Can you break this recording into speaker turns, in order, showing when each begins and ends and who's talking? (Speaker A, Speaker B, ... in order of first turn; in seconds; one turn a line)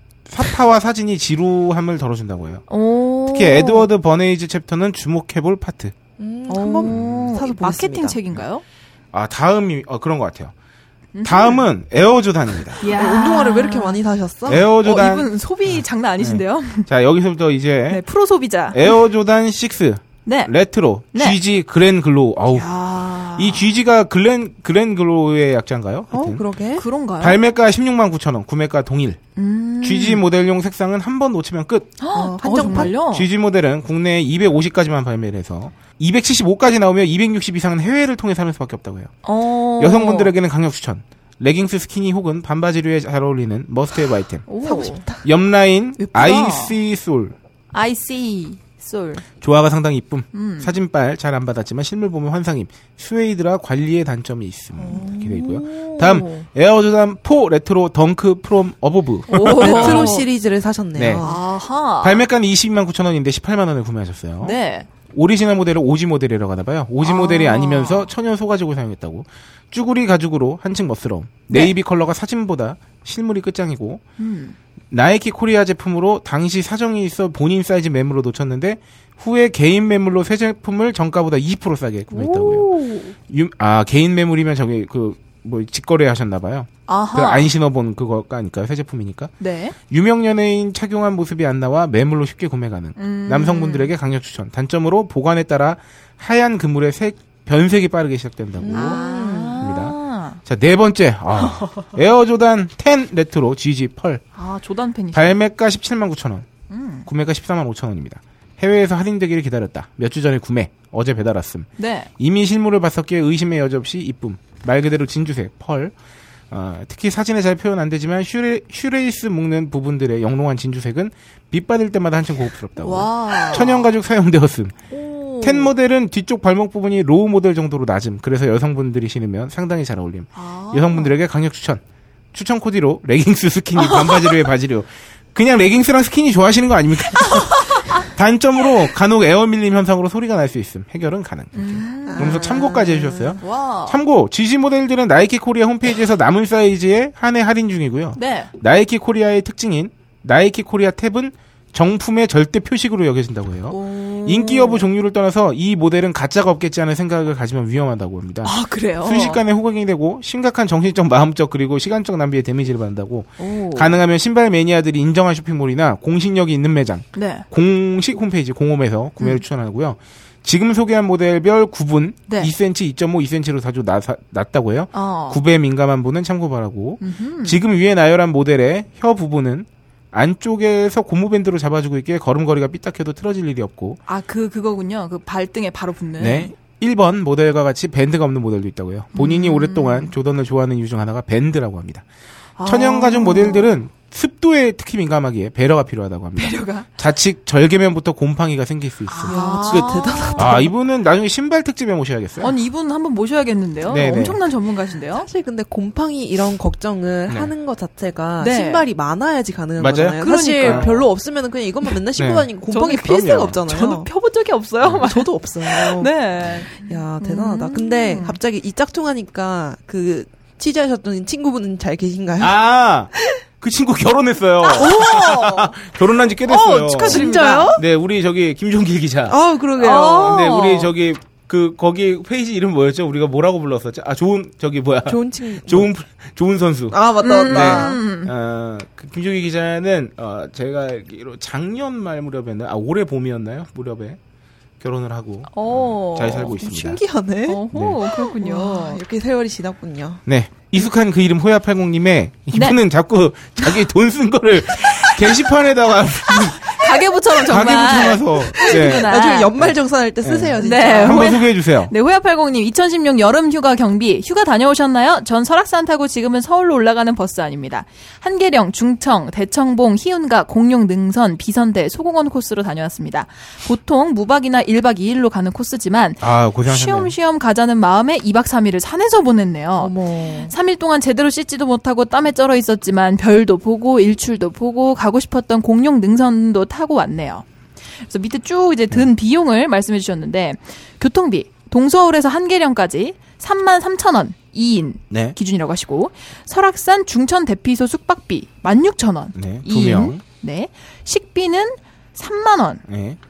Speaker A: 0.3-2.7
Speaker B: 2.7-3.9
Speaker A: 3.3-6.0
Speaker C: 6.2-8.2
Speaker B: 6.5-8.6
Speaker A: 6.9-7.3
Speaker A: 9.1-10.5
Speaker B: 11.2-11.6
Speaker A: 11.2-12.8
Speaker B: 12.8-14.0
Speaker C: 12.8-14.7
Speaker A: 14.5-18.0
Speaker B: 14.8-16.9
Speaker B: 17.9-19.0
Speaker A: 18.7-22.7
Speaker B: 20.2-20.5
Speaker B: 21.1-21.4
Speaker B: 22.5-23.7
Speaker A: 23.4-26.4
Speaker C: 26.1-26.9
Speaker B: 26.8-27.4
Speaker A: 27.2-29.2
Speaker B: 29.4-30.2
Speaker A: 29.8-32.0
Speaker B: 32.0-33.3
Speaker C: 32.1-32.9
Speaker A: 32.6-39.1
Speaker B: 39.2-40.3
Speaker A: 39.8-44.5
Speaker B: 44.5-45.0
Speaker C: 44.6-45.2
Speaker A: 45.2-47.4
Speaker B: 46.0-46.8
Speaker B: 47.7-49.2
Speaker A: 49.4-60.1
Speaker B: 50.3-50.7
Speaker C: 54.8-55.6
Speaker B: 56.0-56.5
Speaker B: 59.3-60.3
Speaker C: 59.4-61.4
Speaker A: 61.0-61.3
Speaker B: 61.2-62.2
Speaker A: 62.0-64.6
Speaker B: 64.4-64.9
Speaker A: 65.1-74.0
Speaker B: 67.0-68.1
Speaker B: 74.2-74.6
Speaker A: 74.9-82.7
Speaker B: 82.1-83.2
Speaker A: 83.3-89.3
Speaker B: 86.9-87.5
Speaker B: 89.4-89.8
Speaker A: 89.9-99.0
Speaker B: 93.0-93.9
Speaker C: 98.6-99.7
Speaker B: 98.7-100.4
Speaker A: 99.6-104.2
Speaker B: 104.4-105.4
Speaker A: 105.1-106.5
Speaker B: 106.7-107.1
Speaker A: 107.1-115.9
Speaker B: 111.8-112.1
Speaker A: 116.5-124.8
Speaker B: 122.8-123.9
Speaker B: 124.9-125.7
Speaker A: 125.4-131.8
Speaker B: 130.3-131.1
Speaker A: 132.3-184.0
Speaker B: 133.8-134.4
Speaker B: 137.7-138.0
Speaker B: 141.6-142.5
Speaker C: 142.1-143.4
Speaker B: 143.4-144.0
Speaker B: 148.2-148.5
Speaker B: 153.7-154.9
Speaker B: 158.4-159.4
Speaker B: 163.4-163.9
Speaker B: 167.2-167.4
Speaker B: 174.9-175.4
Speaker B: 177.0-177.6
Speaker B: 184.1-186.5
Speaker A: 186.2-192.1
Speaker B: 189.1-190.1
Speaker B: 192.6-193.7
Speaker A: 192.6-202.6
Speaker B: 196.4-196.9
Speaker B: 199.1-200.6
Speaker C: 199.3-200.7
Speaker B: 202.4-205.3
Speaker A: 203.9-204.4
Speaker C: 205.1-214.1
Speaker B: 208.4-208.9
Speaker A: 209.8-210.9
Speaker B: 210.2-211.1
Speaker A: 212.2-212.5
Speaker B: 212.7-218.4
Speaker A: 213.0-213.6
Speaker C: 215.0-222.6
Speaker A: 222.4-229.4
Speaker B: 224.7-225.7
Speaker C: 224.8-225.5
Speaker B: 226.5-227.8
Speaker C: 226.9-227.8
Speaker C: 229.3-230.5
Speaker B: 229.8-230.9
Speaker A: 230.1-244.2
Speaker C: 235.1-235.9
Speaker C: 236.9-238.0
Speaker B: 237.2-238.3
Speaker A: 244.8-247.0
Speaker B: 245.5-246.6
Speaker C: 246.5-250.2
Speaker B: 247.5-249.0
Speaker A: 247.7-248.0
Speaker A: 250.3-256.9
Speaker B: 252.5-252.8
Speaker B: 254.8-255.2
Speaker B: 256.4-259.5
Speaker A: 257.5-261.9
Speaker C: 258.6-261.4
Speaker B: 260.6-287.4
Speaker A: 276.2-277.1
Speaker C: 279.8-280.5
Speaker B: 288.0-302.8
Speaker A: 295.1-295.4
Speaker A: 299.4-300.2
Speaker A: 302.9-303.2